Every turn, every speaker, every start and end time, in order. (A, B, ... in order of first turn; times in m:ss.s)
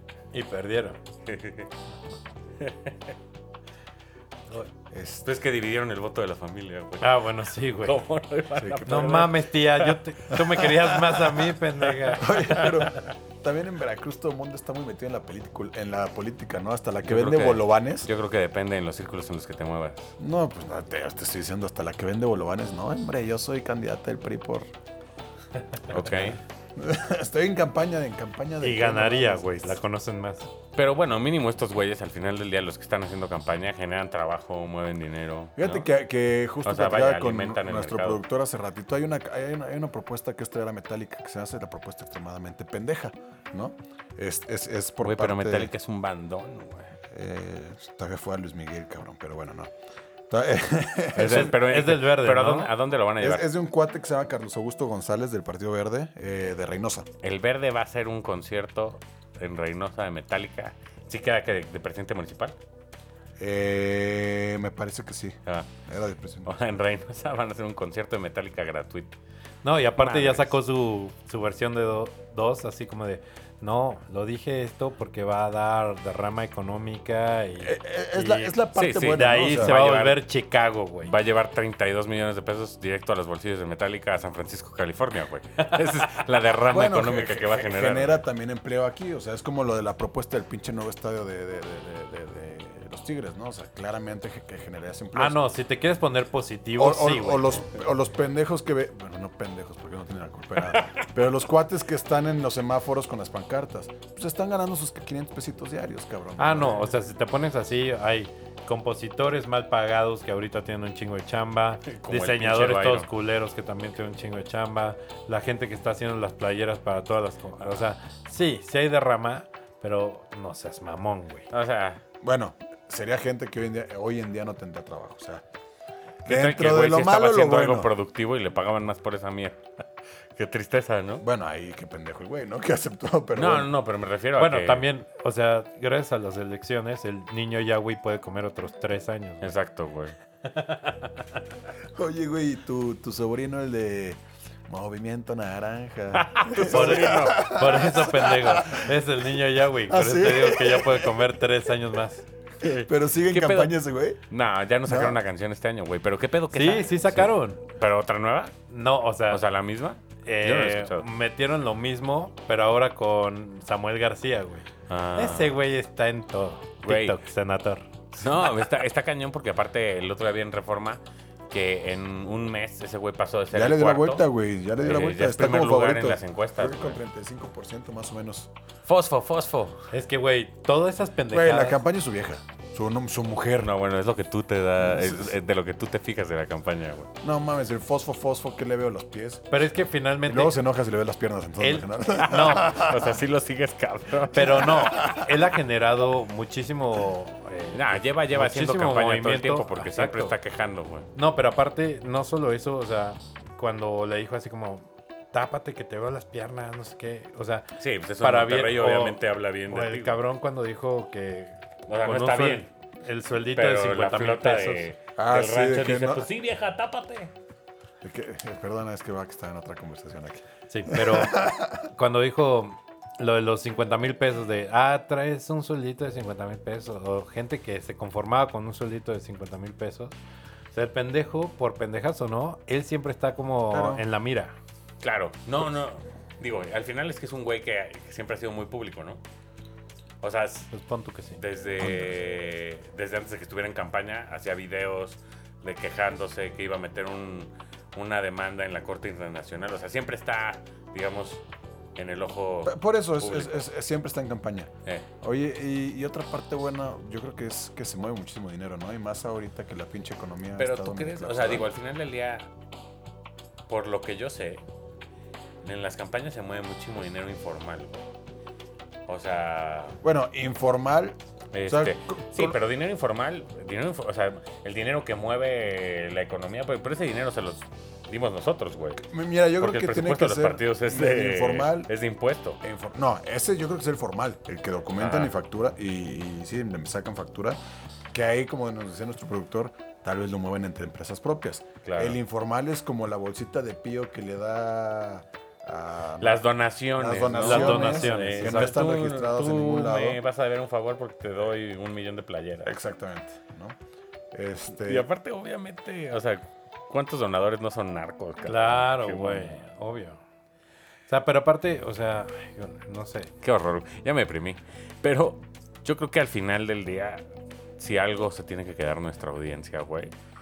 0:00.3-0:01.0 A
0:01.2-0:01.7 B
0:02.6-0:03.2 B
0:04.9-0:05.3 C
0:05.2-0:07.3 B
0:07.0-0:08.0 A
0:07.8-0:10.0 B
0:08.6-0:09.1 C
0:08.9-0:12.6 A
0:12.1-0:13.0 B
0:12.2-0:18.1 C
0:17.0-0:20.2 B
0:20.2-0:24.7 C
0:25.9-0:26.4 B
0:26.8-0:29.8 C
0:28.6-0:30.5 A
0:30.8-0:35.9 B
0:35.6-0:45.7 C
0:36.6-0:38.2 B
0:45.0-0:47.0 B
0:47.1-0:49.7 C
0:50.3-0:51.6 C
0:51.2-0:53.5 B
0:51.3-0:52.7 A
0:53.2-0:57.1 C
0:57.2-1:02.6 B
1:03.4-1:06.6 C
1:06.4-1:09.1 B
1:09.6-1:21.1 A
1:10.0-1:10.6 B
1:17.6-1:19.8 C
1:18.7-1:20.2 B
1:21.0-1:28.2 B
1:26.7-1:35.4 C
1:35.2-1:37.7 A
1:36.8-1:46.9 C
1:46.4-2:01.5 A
1:51.9-1:53.1 B
2:01.5-2:02.0 B
2:02.2-2:05.4 C
2:06.2-2:07.9 C
2:06.2-2:09.8 B
2:10.4-2:11.2 B
2:11.2-2:13.7 C
2:13.4-2:14.9 B
2:14.4-2:19.6 A
2:19.4-2:20.2 B
2:20.4-2:21.2 A
2:21.9-2:28.8 C
2:26.1-2:27.6 B
2:26.6-2:32.3 A
2:29.9-2:31.3 C
2:32.6-2:33.8 B
2:32.9-2:34.2 C
2:34.3-2:38.6 B
2:34.9-2:35.2 C
2:36.5-2:37.6 A
2:38.7-2:39.4 A
2:39.3-2:41.1 B
2:40.2-2:47.9 A
2:44.9-2:45.6 B
2:46.8-2:47.2 B
2:48.1-2:54.3 B
2:53.5-2:58.5 C
2:54.8-2:57.0 B
2:58.9-2:59.9 B
2:59.9-3:01.8 A
3:01.3-3:03.7 C
3:03.6-3:07.1 B
3:04.8-3:05.4 C
3:07.2-3:09.6 C
3:09.5-3:10.6 A
3:10.2-3:13.2 C
3:11.6-3:12.8 A
3:12.3-3:14.7 B
3:14.3-3:20.4 A
3:14.7-3:15.2 C
3:17.7-3:21.1 B
3:21.2-3:29.2 A
3:27.8-3:30.2 B
3:29.7-3:34.9 A
3:31.9-3:32.7 B
3:33.6-3:37.3 B
3:35.2-3:36.3 C
3:38.0-3:41.8 C
3:40.7-3:50.2 A
3:50.7-3:54.6 A
3:53.7-3:54.0 C
3:55.0-3:59.2 B
4:00.2-4:00.7 B
4:00.7-4:01.4 A
4:01.4-4:11.4 B
4:01.8-4:02.1 C
4:12.0-4:13.6 B
4:12.6-4:21.7 C
4:20.6-4:22.5 B
4:23.7-4:24.6 B
4:25.6-4:28.1 B
4:29.1-4:30.0 B
4:30.0-4:32.6 C
4:31.5-4:39.0 B
4:39.0-4:41.9 C
4:39.6-4:42.6 B
4:42.6-4:47.6 C
4:45.0-4:45.3 B
4:48.1-4:56.4 C
4:51.8-4:52.2 B
4:56.2-5:02.8 B
4:57.0-5:00.2 C
4:57.4-4:58.8 A
5:02.6-5:03.8 C
5:04.3-5:05.1 C
5:04.7-5:09.6 B
5:08.4-5:10.2 A
5:11.1-5:13.3 A
5:13.4-5:17.2 B
5:17.8-5:20.1 B